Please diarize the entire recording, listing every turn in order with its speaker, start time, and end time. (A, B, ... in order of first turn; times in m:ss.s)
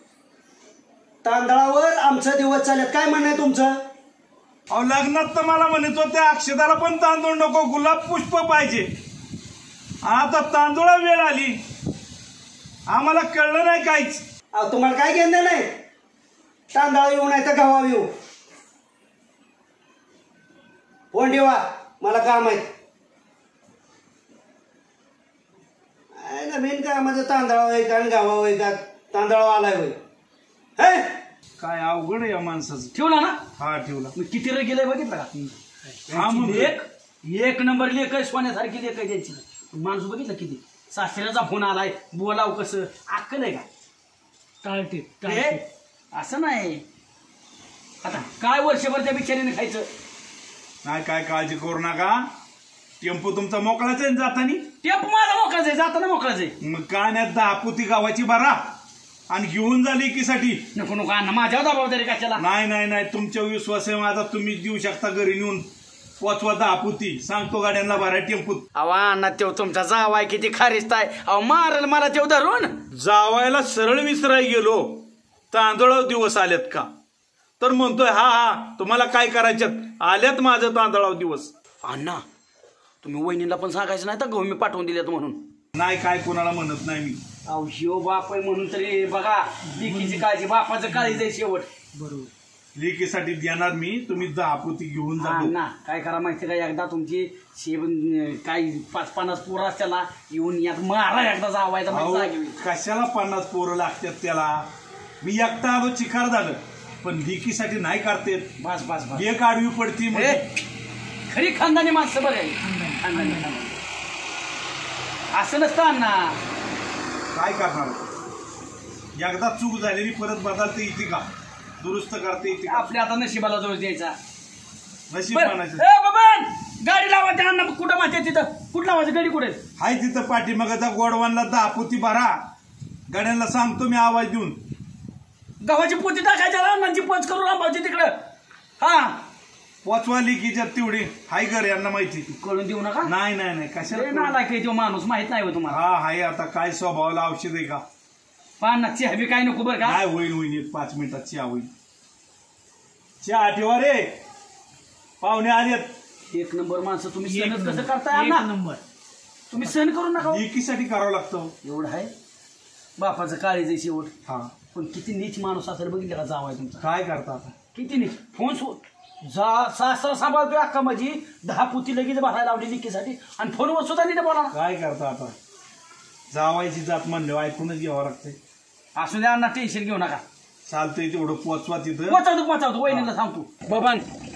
0:01.2-0:03.8 A
0:04.7-0:08.9 B
0:10.0-0:11.6 B
0:12.9-0:14.2 B
0:14.5-0:15.7 A
0:16.7-0:18.1 A
0:21.1-0:22.7 A
0:26.2-0:30.0 A
0:30.8-0:31.2 A
0:31.6-0:32.9 B
0:32.9-0:33.4 C
0:33.6-0:34.1 B
0:34.2-0:35.3 C
0:36.1-0:43.7 C
0:36.1-0:36.8 B
0:44.6-0:45.6 C
0:46.1-0:46.8 C
0:48.0-0:49.9 C
0:50.8-0:52.2 B
0:53.0-0:54.7 B
0:54.8-0:56.5 C
0:56.6-0:58.6 B
0:59.3-1:00.6 B
1:00.8-1:02.4 C
1:02.4-1:05.7 B
1:06.2-1:08.6 B
1:08.8-1:12.8 C
1:12.9-1:16.9 B
1:17.6-1:21.5 B
1:21.8-1:22.2 C
1:23.0-1:25.4 C
1:25.8-1:27.2 B
1:27.5-1:31.7 C
1:32.8-1:35.5 B
1:35.2-1:42.6 C
1:41.9-1:44.6 B
1:45.2-1:48.5 B
1:48.6-1:49.3 C
1:49.2-1:50.4 B
1:50.1-1:50.4 C
1:51.3-1:53.7 C
1:55.3-1:56.4 C
1:57.3-1:58.1 B
1:59.2-2:01.2 B
2:01.8-2:02.9 B
2:02.6-2:04.2 C
2:05.1-2:05.8 B
2:05.3-2:09.6 C
2:09.8-2:12.4 B
2:13.1-2:14.6 B
2:15.6-2:18.2 C
2:18.8-2:19.2 C
2:19.8-2:22.4 B
2:22.4-2:23.1 C
2:23.1-2:24.4 B
2:23.9-2:25.8 C
2:25.7-2:27.8 B
2:28.6-2:30.0 C
2:29.8-2:31.7 B
2:33.2-2:34.2 B
2:35.2-2:35.9 B
2:36.3-2:38.5 C
2:39.5-2:40.4 C
2:40.2-2:41.5 B
2:41.6-2:42.1 C
2:43.0-2:44.1 C
2:44.3-2:44.5 B
2:44.7-2:46.9 C
2:46.8-2:47.5 B
2:47.8-2:54.6 C
2:54.5-2:55.4 B
2:56.3-2:58.4 B
2:59.0-3:00.2 C
3:00.7-3:02.2 B
3:02.1-3:04.0 C